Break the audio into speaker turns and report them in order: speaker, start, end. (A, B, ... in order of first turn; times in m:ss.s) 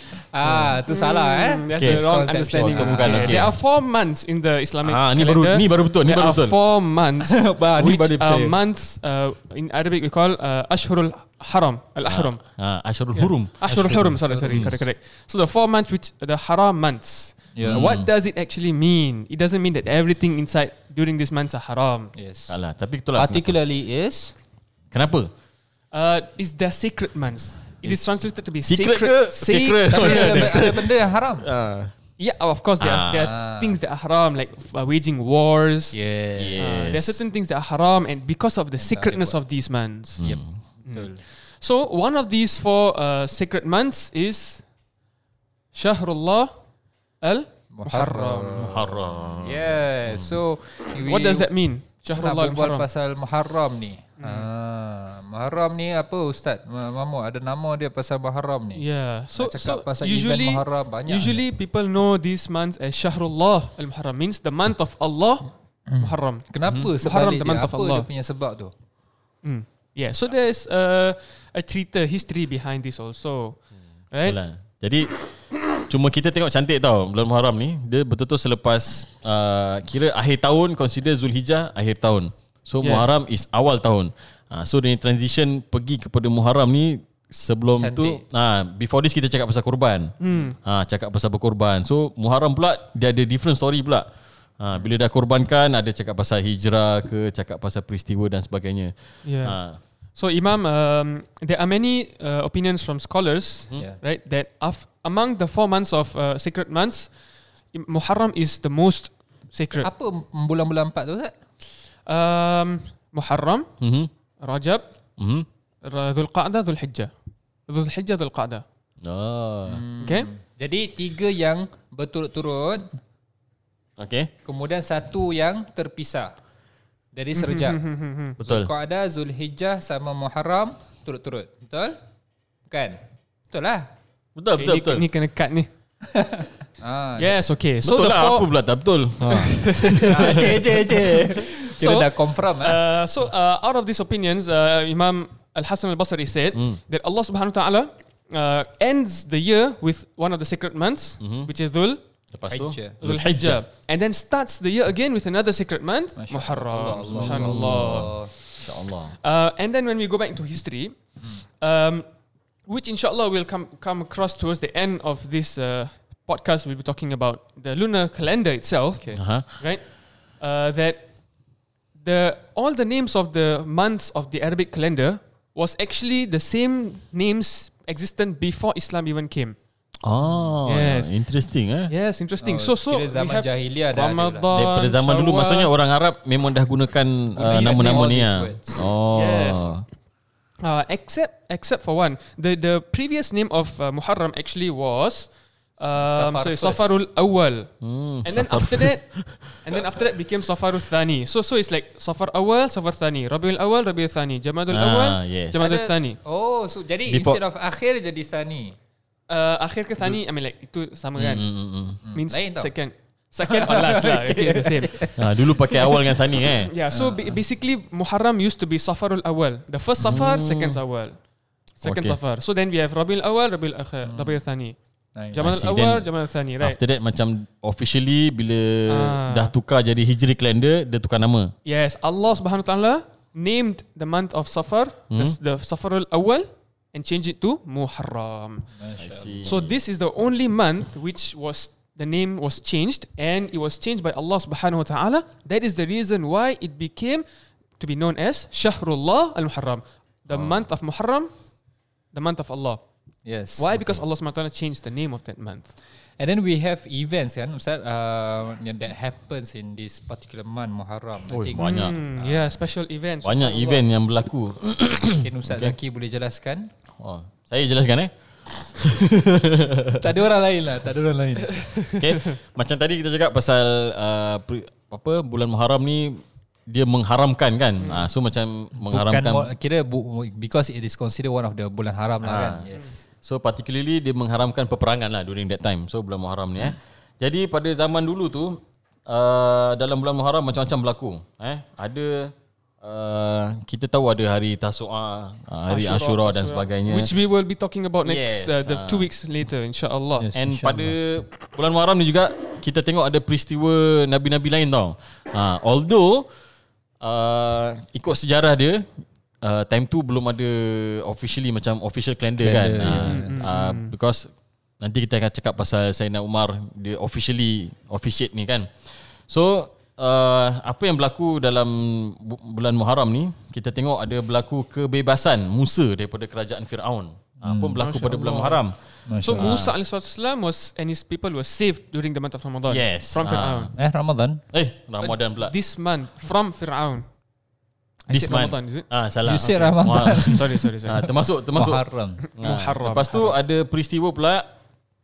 0:00.3-0:03.5 A
0:00.9-0:12.4 B
0:01.8-0:03.5 C
0:04.8-0:06.6 C
0:07.2-0:08.6 A
0:12.1-0:14.8 C
0:13.2-0:22.1 B
0:13.6-0:14.9 A
0:17.6-0:17.9 A
0:17.6-0:18.1 C
0:22.2-0:22.6 A
0:22.5-0:23.5 C
0:23.2-0:24.3 A
0:24.9-0:25.3 C
0:25.9-0:30.6 B
0:28.6-0:31.9 C
0:29.9-0:31.5 A
0:32.2-0:36.0 B
0:32.8-0:33.3 C
0:33.2-0:33.8 A
0:35.9-0:37.0 A
0:36.4-0:37.2 C
0:36.6-0:40.2 B
0:38.8-0:39.4 A
0:40.2-0:40.6 C
0:40.2-0:41.2 A
0:40.8-0:44.6 B
0:45.7-0:46.5 B
0:47.2-0:48.7 B
0:47.7-0:51.5 A
0:48.6-0:50.3 C
0:51.0-0:52.9 B
0:52.1-1:01.4 A
0:54.2-0:54.5 B
0:58.8-1:08.1 B
1:05.9-1:08.7 A
1:06.7-1:06.9 C
1:09.4-1:14.4 B
1:14.2-1:34.1 C
1:22.8-1:23.1 B
1:27.8-1:28.2 A
1:30.2-1:30.6 B
1:34.6-1:39.8 C
1:39.2-1:47.1 B
1:47.7-1:49.9 B
1:49.8-1:51.4 A
1:52.1-1:53.7 B
1:53.8-1:54.1 C
1:54.4-1:54.8 B
1:55.2-1:55.5 C
1:55.8-1:57.1 B
1:57.7-1:58.6 B
1:59.0-1:59.8 C
1:59.7-2:03.0 A
2:00.0-2:00.3 B
2:04.0-2:04.3 C
2:04.4-2:06.3 A
2:07.2-2:07.8 A
2:07.4-2:08.4 B
2:08.4-2:08.7 C
2:08.4-2:12.0 A
2:12.7-2:13.0 A
2:13.5-2:13.9 A
2:14.4-2:15.1 C
2:14.6-2:15.7 B
2:16.1-2:17.4 A
2:17.2-2:18.5 B
2:17.8-2:20.6 C
2:19.2-2:32.0 B
2:20.1-2:22.8 A
2:26.5-2:26.8 C
2:31.2-2:31.5 C
2:32.3-2:33.6 C
2:32.5-2:33.0 A
2:33.0-2:38.1 B
2:36.2-2:38.3 A
2:37.2-2:39.2 C
2:39.2-2:41.0 B
2:41.6-2:42.1 B
2:42.7-2:51.1 B
2:49.2-2:49.6 C
2:52.0-2:59.6 B
3:00.0-3:01.9 C
3:00.7-3:01.2 B
3:01.9-3:05.7 B
3:02.4-3:04.5 A
3:04.5-3:09.8 C
3:07.4-3:08.9 A
3:07.5-3:08.0 B
3:09.1-3:09.7 B
3:10.6-3:17.7 B
3:15.9-3:17.0 A
3:17.8-3:20.1 C
3:18.2-3:26.2 B
3:24.7-3:25.7 C
3:25.6-3:28.8 A
3:27.1-3:27.4 C
3:29.3-3:31.5 B
3:31.2-3:32.0 C
3:32.0-3:32.7 A
3:32.1-3:35.2 B
3:33.4-3:35.2 A
3:35.2-3:36.7 C
3:36.7-3:41.2 B
3:36.9-3:37.4 A
3:40.0-3:40.8 C
3:41.8-3:44.8 B
3:41.8-3:42.2 C
3:44.0-3:44.4 A
3:45.2-3:45.4 A
3:45.3-3:46.8 B
3:45.4-3:51.5 C
3:48.9-3:49.5 B
3:51.6-3:58.7 B
3:55.1-3:55.4 C
3:58.8-3:59.6 A
3:59.0-3:59.8 C
3:59.4-4:07.2 B
4:07.8-4:11.3 B
4:10.3-4:10.6 C
4:12.1-4:12.8 B
4:13.2-4:13.9 A
4:13.6-4:15.7 B
4:16.2-4:22.6 A
4:21.3-4:22.0 C
4:21.6-4:23.8 B
4:23.2-4:25.7 C
4:25.2-4:26.7 A
4:27.0-4:30.0 C
4:30.0-4:31.8 A
4:32.0-4:39.5 C
4:37.8-4:38.1 B
4:38.9-4:43.0 A
4:42.2-4:42.7 C
4:43.2-4:57.1 C
4:55.7-5:00.3 B
4:58.0-4:59.1 C
5:00.2-5:01.0 A
5:00.4-5:06.3 C
5:07.0-5:29.7 C
5:12.4-5:13.4 A
5:12.8-5:13.9 B
5:27.4-5:27.8 A
5:27.8-5:33.7 B
5:29.1-5:29.6 A
5:32.7-5:33.8 C
5:33.8-5:34.4 A
5:34.5-5:35.5 C
5:35.0-5:37.1 B
5:38.1-5:38.9 B
5:38.1-5:44.5 C
5:39.2-5:42.2 A
5:40.1-5:41.1 B
5:42.2-5:43.4 B